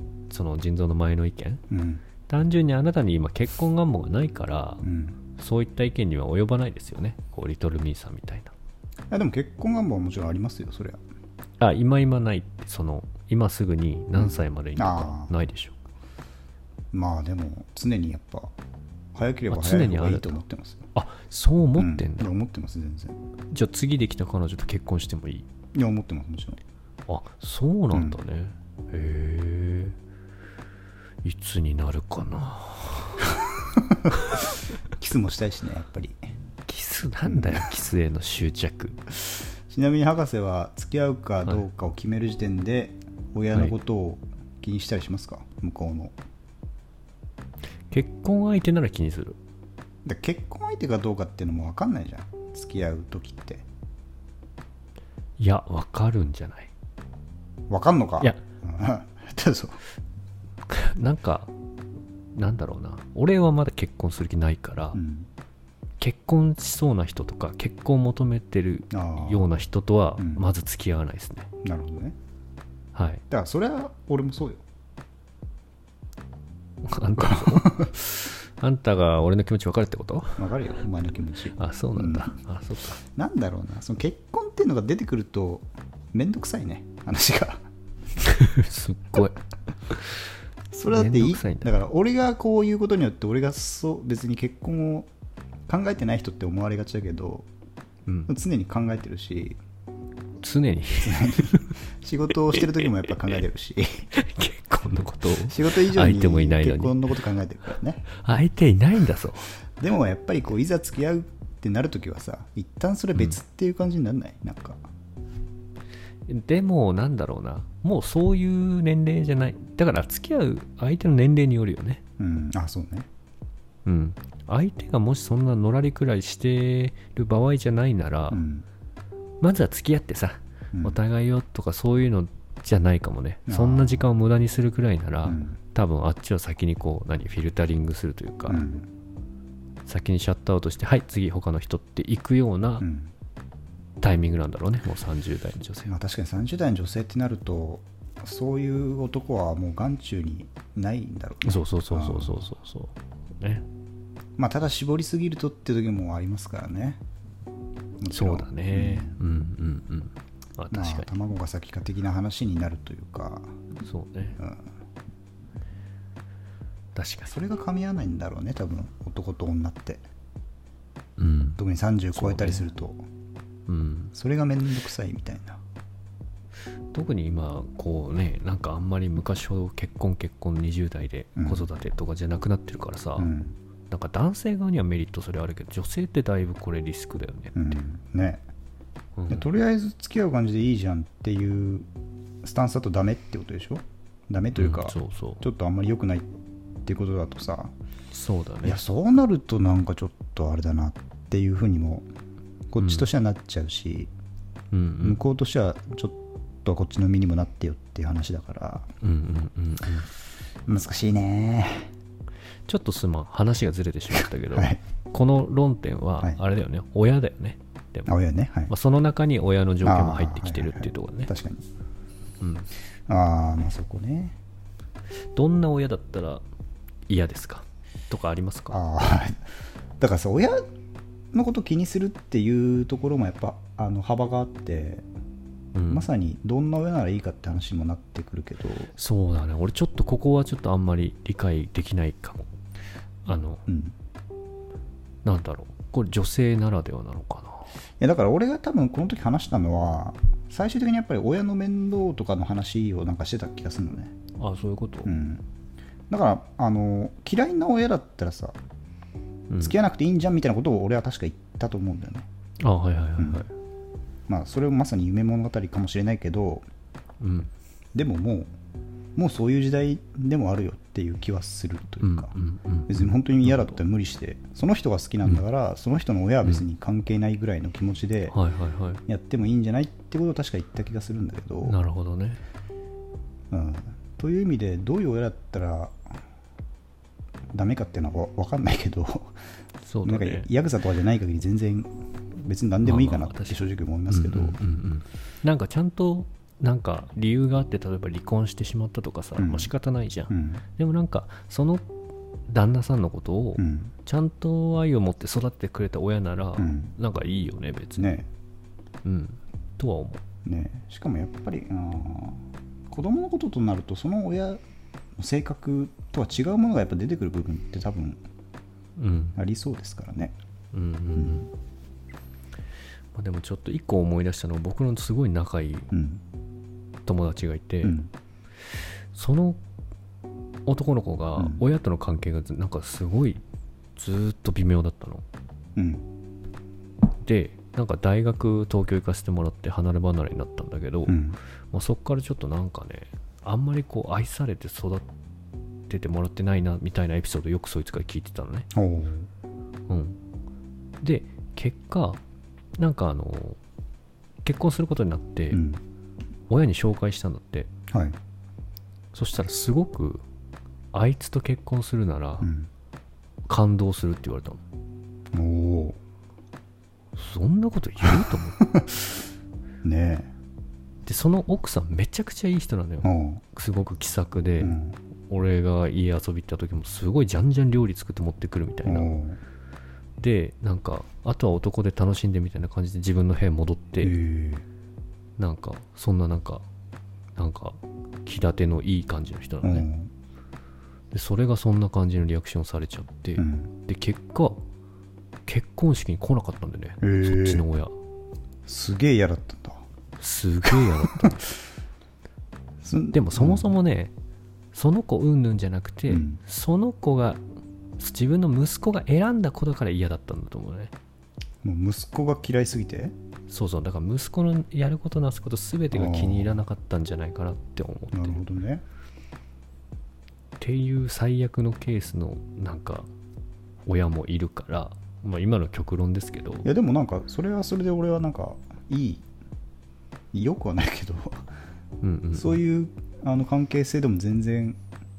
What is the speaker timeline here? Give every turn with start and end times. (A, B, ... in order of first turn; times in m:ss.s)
0:00.3-0:01.6 A
0:01.7-0:02.0 B
0:02.3-0:04.8 A
0:04.8-0:05.2 B
0:05.4-0:08.5 A
0:09.1-0:11.0 B
0:11.6-0:15.8 A
0:14.2-0:15.3 B
0:16.9-0:18.5 B
0:19.2-0:20.9 B
0:19.5-0:20.4 A
0:21.0-0:22.3 A
0:21.8-0:23.2 B
0:23.5-0:25.5 A
0:25.7-0:26.6 B
0:27.1-0:30.0 A
0:27.9-0:28.2 B
0:31.2-0:33.5 A
0:35.0-0:36.2 B
0:36.7-0:39.0 A
0:37.3-0:37.7 B
0:39.7-0:46.2 B
0:47.9-0:49.4 A
0:50.0-0:53.6 B
0:55.4-0:56.7 A
0:57.7-0:59.8 B
1:00.7-1:01.5 A
1:02.4-1:05.0 A
1:04.9-1:05.3 B
1:06.0-1:11.5 A
1:08.9-1:09.5 B
1:10.2-1:10.5 B
1:11.6-1:12.2 B
1:13.0-1:13.2 A
1:13.3-1:14.6 B
1:16.8-1:20.5 A
1:17.2-1:17.9 B
1:20.4-1:22.3 B
1:21.6-1:23.0 A
1:23.2-1:27.6 B
1:28.2-1:29.4 A
1:30.7-1:35.1 B
1:30.9-1:31.7 A
1:35.7-1:37.5 B
1:38.3-1:39.6 B
1:40.4-1:41.8 A
1:41.0-1:44.1 B
1:44.1-1:47.1 A
1:45.4-1:48.0 B
1:48.1-1:49.5 A
1:49.8-1:54.8 B
1:56.3-2:02.0 A
2:02.2-2:03.1 B
2:03.9-2:08.4 A
2:08.3-2:08.7 B
2:09.4-2:18.6 A
2:10.7-2:11.0 B
2:13.5-2:14.1 B
2:15.2-2:15.6 B
2:18.5-2:18.9 B
2:19.9-2:22.9 A
2:22.8-2:23.1 B
2:24.0-2:26.0 A
2:25.9-2:32.5 B
2:31.4-2:33.6 A
2:34.4-2:37.0 B
2:38.0-2:39.2 B
2:38.1-2:41.1 A
2:40.7-2:43.5 B
2:43.8-2:44.4 A
2:44.4-2:44.7 B
2:47.0-2:47.4 A
2:47.3-2:50.0 B
2:51.2-2:51.6 A
2:51.6-2:53.0 B
2:52.1-2:52.7 A
2:53.7-2:54.1 A
2:54.1-2:55.6 B
2:56.9-3:03.3 A
3:01.4-3:01.7 B
3:03.2-3:03.6 B
3:03.9-3:07.7 A
3:07.6-3:08.4 B
3:09.2-3:09.5 A
3:09.3-3:11.9 B
3:12.4-3:16.3 B
3:14.6-3:15.4 A
3:16.8-3:17.7 B
3:18.1-3:18.8 A
3:18.6-3:22.1 B
3:22.7-3:24.1 B
3:22.8-3:23.1 A
3:24.7-3:25.2 A
3:25.0-3:28.9 B
3:29.0-3:30.1 A
3:30.7-3:31.9 B
3:32.7-3:38.1 A
3:34.5-3:34.8 B
3:38.1-3:38.7 B
3:38.7-3:41.3 A
3:39.8-3:41.6 B
3:42.4-3:42.7 A
3:43.1-3:44.4 B
3:45.3-3:46.4 A
3:47.1-3:48.8 A
3:48.7-3:49.4 B
3:50.0-3:50.6 B
3:51.3-3:55.0 B
3:55.7-3:56.1 A
3:55.9-3:58.9 B
3:59.0-4:02.5 A
4:03.3-4:03.6 A
4:03.7-4:04.0 B
4:05.2-4:07.7 A
4:08.0-4:14.1 B
4:14.4-4:15.1 A
4:15.0-4:15.4 B
4:16.1-4:18.6 B
4:19.5-4:19.8 A
4:19.6-4:22.3 B
4:22.6-4:23.5 A
4:23.2-4:23.5 B
4:24.3-4:26.6 B
4:27.2-4:27.5 A
4:28.0-4:28.5 B
4:29.2-4:32.3 B
4:32.0-4:33.8 A
4:32.9-4:38.4 B
4:38.3-4:39.0 A
4:39.1-4:41.8 B
4:41.6-4:42.4 A
4:43.5-4:46.0 B
4:47.5-4:49.4 B
4:49.8-4:50.5 A
4:50.0-4:51.9 B
4:52.4-4:54.6 B
4:52.8-5:01.8 A
4:59.4-4:59.7 B
5:00.3-5:00.6 B
5:02.5-5:08.2 A
5:03.6-5:03.9 B
5:06.6-5:06.9 B
5:08.0-5:08.3 B
5:09.0-5:10.2 A
5:10.4-5:14.6 B
5:15.2-5:18.2 B
5:19.0-5:19.4 A
5:19.4-5:20.3 B
5:20.7-5:21.5 A
5:21.2-5:21.5 B
5:23.2-5:25.9 A
5:25.9-5:26.2 B
5:27.1-5:28.0 A
5:27.8-5:28.1 B
5:29.1-5:29.6 A
5:30.7-5:33.4 A
5:31.4-5:31.6 B
5:34.0-5:35.2 A
5:35.8-5:36.0 B
5:37.2-5:41.2 A
5:41.1-5:41.4 B
5:41.7-5:45.1 A
5:45.9-5:48.7 A
5:48.7-5:49.3 B
5:49.9-5:50.2 A
5:51.0-5:52.2 A
5:52.8-5:53.6 A
5:54.4-5:55.6 A
5:55.5-5:55.8 B
5:56.5-5:57.7 A
5:57.9-5:58.2 B
5:59.1-6:00.2 A
6:00.9-6:02.5 A
6:02.4-6:02.7 B
6:03.5-6:04.6 A
6:05.3-6:06.0 B
6:07.2-6:08.8 A
6:08.6-6:08.8 B
6:09.8-6:10.3 B
6:11.1-6:14.8 A
6:13.0-6:13.4 B
6:14.6-6:15.0 B
6:15.3-6:19.1 A
6:18.9-6:19.4 B
6:20.2-6:24.2 A
6:24.0-6:24.6 B
6:25.4-6:26.6 A
6:27.4-6:29.9 A
6:29.6-6:30.1 B
6:31.1-6:34.6 A
6:33.4-6:33.7 B
6:35.5-6:37.9 A
6:37.0-6:37.6 B
6:38.7-6:39.8 B
6:40.2-6:41.5 A
6:42.8-6:43.7 B
6:43.1-6:44.1 A
6:44.7-6:47.4 A
6:46.1-6:46.4 B
6:48.0-6:50.9 A
6:51.6-6:53.1 B
6:53.5-6:58.4 A
6:55.9-6:56.6 B
6:58.1-6:58.8 B
7:00.6-7:03.1 A
7:03.9-7:06.7 A
7:06.6-7:09.2 B
7:10.3-7:11.5 B
7:12.0-7:12.6 A
7:12.3-7:14.8 B